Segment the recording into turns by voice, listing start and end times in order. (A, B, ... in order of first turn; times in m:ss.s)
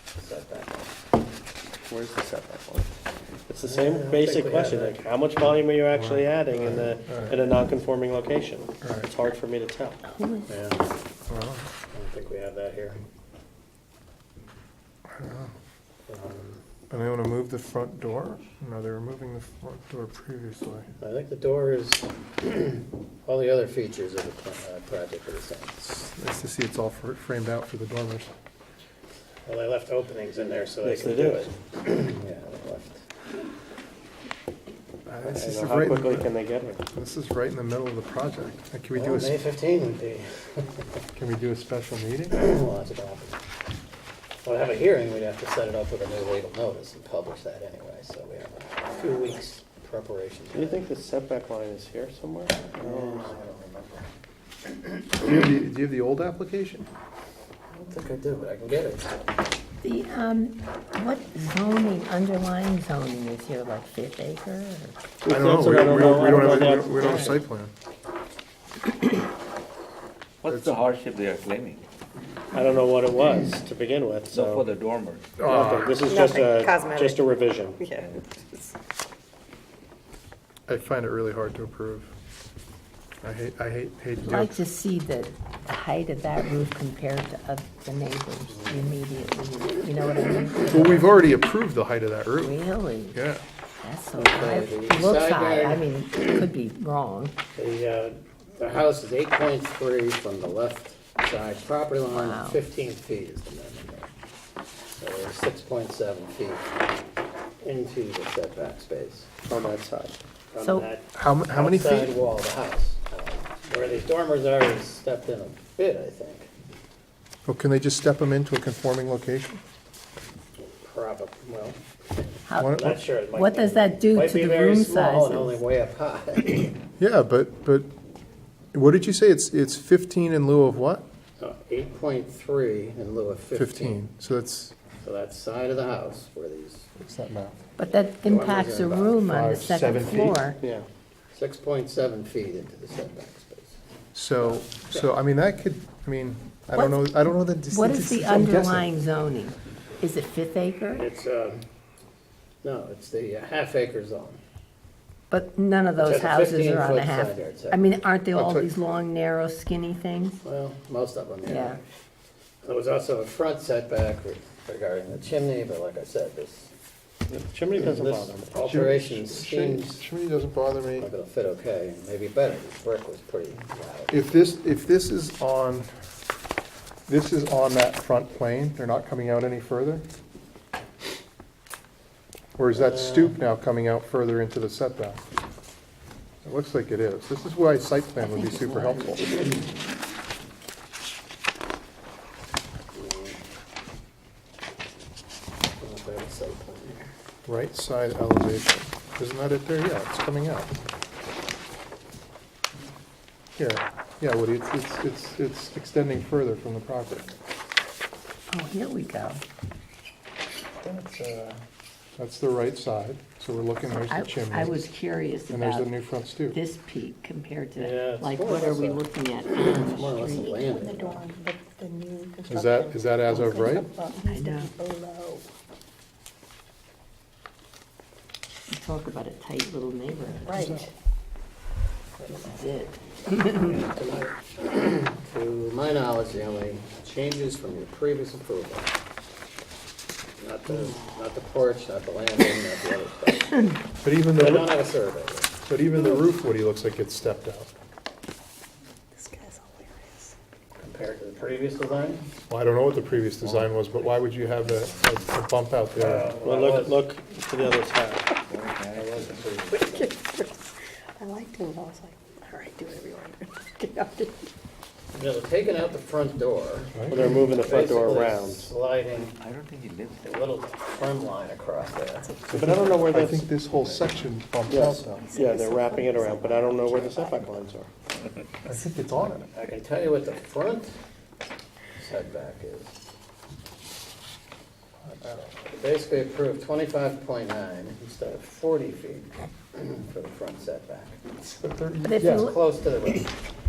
0:00.2-0:00.9 A
0:01.9-0:02.9 B
0:03.5-0:10.0 B
0:03.6-0:05.0 A
0:05.9-0:07.4 C
0:08.8-0:09.1 C
0:10.0-0:10.5 D
0:10.5-0:10.9 A
0:11.3-0:11.7 C
0:11.9-0:13.0 A
0:15.1-0:15.5 C
0:16.1-0:16.6 A
0:16.9-0:20.9 C
0:21.0-0:26.1 A
0:26.1-0:28.3 C
0:29.4-0:33.0 A
0:30.8-0:31.5 B
0:35.0-0:36.3 C
0:35.3-0:36.8 B
0:36.9-0:39.4 C
0:38.9-0:41.0 A
0:41.1-0:42.4 C
0:42.3-0:43.4 A
0:44.4-0:50.8 A
0:50.5-0:53.4 B
0:52.7-0:54.1 A
0:55.2-0:56.9 C
0:57.7-0:59.1 A
0:59.8-1:05.0 D
1:05.2-1:07.3 B
1:05.3-1:07.7 C
1:06.1-1:07.4 D
1:10.4-1:11.8 E
1:12.5-1:14.6 B
1:14.3-1:15.3 E
1:15.4-1:16.0 C
1:15.4-1:17.8 B
1:16.0-1:17.2 F
1:17.8-1:18.1 F
1:17.9-1:18.2 E
1:20.7-1:22.1 C
1:23.2-1:24.6 C
1:24.2-1:31.1 D
1:28.5-1:28.9 A
1:30.7-1:32.6 C
1:32.4-1:33.2 D
1:33.1-1:33.4 C
1:33.8-1:37.3 D
1:34.1-1:36.5 A
1:37.6-1:44.1 A
1:42.1-1:42.6 D
1:45.0-1:46.7 A
1:47.6-1:49.4 A
1:49.4-1:50.1 B
1:50.5-1:56.5 A
1:50.6-1:50.9 D
1:51.1-1:52.1 C
1:57.4-1:59.6 C
2:00.8-2:06.7 A
2:02.5-2:05.6 D
2:02.6-2:03.0 C
2:07.0-2:07.9 C
2:08.7-2:11.0 C
2:11.4-2:14.0 A
2:13.5-2:14.7 C
2:15.0-2:16.9 A
2:17.0-2:17.6 C
2:17.8-2:20.6 D
2:18.2-2:19.2 A
2:19.2-2:20.4 C
2:20.6-2:20.8 B
2:21.3-2:23.8 A
2:24.1-2:28.9 C
2:24.4-2:25.1 A
2:26.7-2:31.0 D
2:30.9-2:31.6 A
2:32.6-2:34.4 A
2:35.3-2:40.4 D
2:36.0-2:37.8 A
2:38.3-2:38.7 C
2:40.4-2:41.8 A
2:41.4-2:41.8 D
2:42.6-2:46.7 A
2:47.3-2:48.5 B
2:47.8-2:50.1 A
2:48.5-2:51.1 C
2:51.0-2:54.2 A
2:54.1-2:55.9 C
2:57.1-3:00.0 C
3:02.6-3:05.2 C
3:02.7-3:03.4 A
3:06.4-3:09.4 C
3:08.2-3:09.9 D
3:12.9-3:13.4 A
3:15.8-3:17.0 A
3:17.4-3:20.7 C
3:23.6-3:27.3 C
3:28.5-3:29.4 D
3:30.8-3:31.6 A
3:32.2-3:34.9 C
3:33.8-3:40.5 D
3:35.5-3:36.6 C
3:37.8-3:41.2 A
3:40.3-3:45.4 F
3:42.5-3:43.9 C
3:44.2-3:44.7 D
3:48.7-3:50.7 D
3:50.5-3:50.9 F
3:50.5-3:50.9 C
3:52.3-3:53.8 D
3:53.6-3:58.9 A
4:00.4-4:05.5 A
4:04.0-4:04.8 C
4:05.6-4:07.7 C
4:09.2-4:10.3 F
4:10.8-4:12.3 A
4:12.5-4:16.3 C
4:13.1-4:15.3 E
4:16.0-4:17.0 A
4:16.4-4:18.3 B
4:18.5-4:19.7 E
4:18.9-4:20.2 A
4:19.7-4:20.6 F
4:21.2-4:24.5 F
4:25.1-4:29.3 A
4:26.9-4:27.4 C
4:27.1-4:28.7 B
4:29.1-4:30.3 E
4:30.2-4:32.3 A
4:32.5-4:33.4 B
4:32.5-4:35.3 C
4:33.7-4:34.2 E
4:34.7-4:37.9 B
4:34.8-4:37.5 F
4:38.6-4:39.5 C
4:39.2-4:41.0 A
4:42.0-4:42.9 A
4:45.0-4:45.6 C
4:45.7-4:51.2 A
4:51.4-4:52.5 C
4:52.0-4:52.6 D
4:52.2-4:53.3 A